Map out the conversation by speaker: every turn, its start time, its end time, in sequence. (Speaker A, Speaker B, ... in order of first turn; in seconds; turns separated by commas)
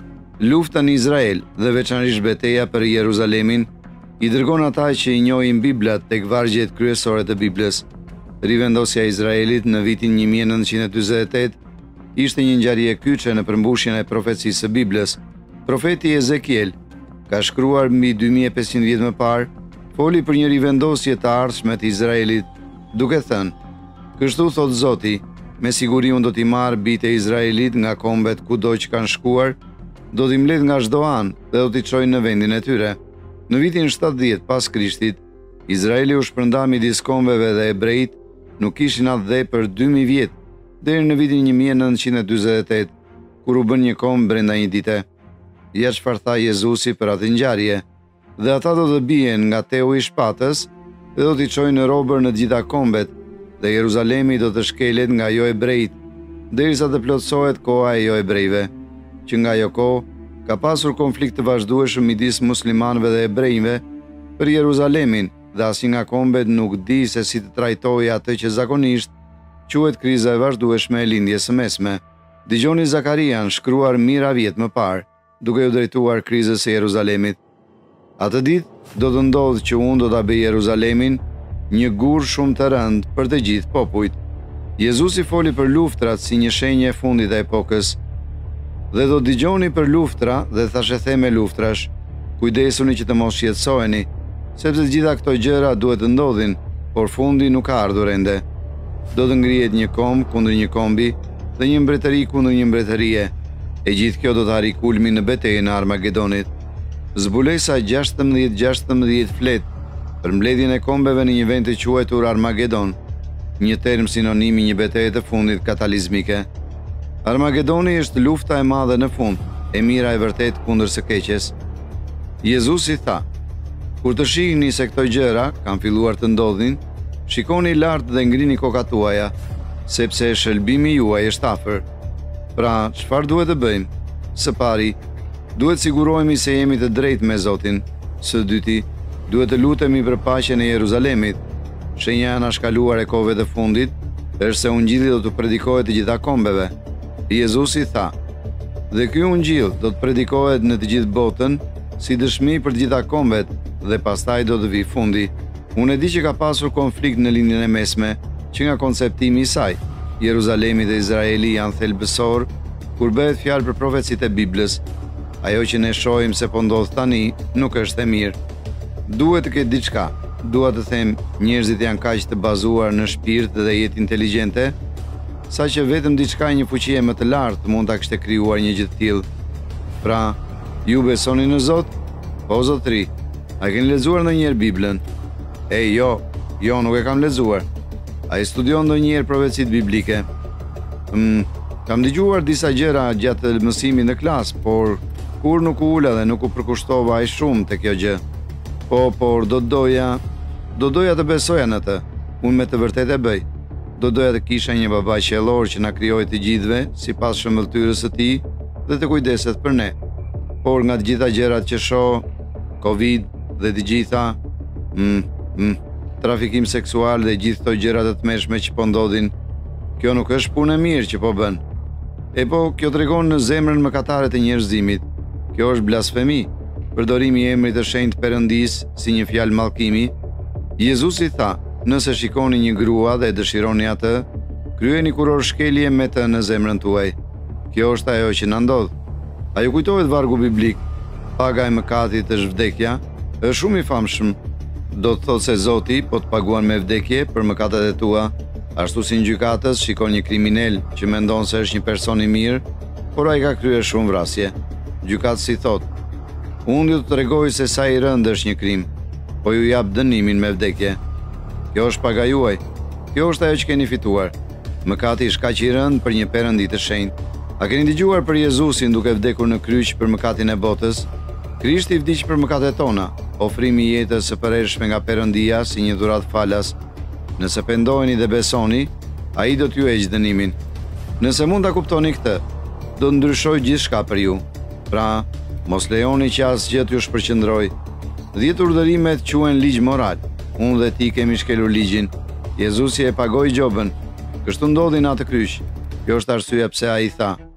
Speaker A: 0.4-3.7, Speaker A: 4.2-7.8, Speaker A: 8.4-11.6, Speaker A: 12.2-16.8, Speaker A: 17.3-23.5, Speaker A: 24.2-29.6, Speaker A: 30.1-45.0, Speaker A: 45.7-47.8, Speaker A: 48.4-56.0, Speaker A: 56.5-58.7, Speaker A: 59.2-63.8, Speaker A: 64.4-69.1, Speaker A: 69.7-77.4, Speaker A: 78.2-84.2, Speaker A: 84.8-88.0, Speaker A: 88.9-98.4, Speaker A: 99.1-103.3, Speaker A: 103.8-106.5, Speaker A: 107.1-109.7, Speaker A: 110.2-113.0, Speaker A: 113.6-116.5, Speaker A: 117.2-121.5, Speaker A: 122.4-123.2, Speaker A: 124.0-129.3, Speaker A: 129.9-131.8, Speaker A: 132.6-135.0, Speaker A: 135.5-141.4, Speaker A: 141.9-146.7, Speaker A: 147.3-148.1, Speaker A: 148.9-164.8, Speaker A: 165.4-168.4, Speaker A: 169.1-174.8, Speaker A: 175.5-179.3, Speaker A: 180.0-181.9, Speaker A: 182.5-185.0, Speaker A: 185.7-187.7, Speaker A: 188.3-190.3, Speaker A: 191.1-198.2, Speaker A: 198.9-200.2, Speaker A: 200.7-209.9, Speaker A: 210.6-212.2, Speaker A: 212.8-214.4, Speaker A: 214.9-219.3, Speaker A: 220.0-221.6, Speaker A: 222.3-230.1, Speaker A: 230.8-237.2, Speaker A: 237.7-238.9, Speaker A: 239.5-240.8, Speaker A: 241.4-244.4, Speaker A: 244.9-255.9, Speaker A: 256.6-258.9, Speaker A: 259.4-261.0, Speaker A: 261.7-264.3, Speaker A: 264.8-276.8, Speaker A: 277.4-280.6, Speaker A: 281.2-282.4, Speaker A: 282.9-287.7, Speaker A: 288.3-297.4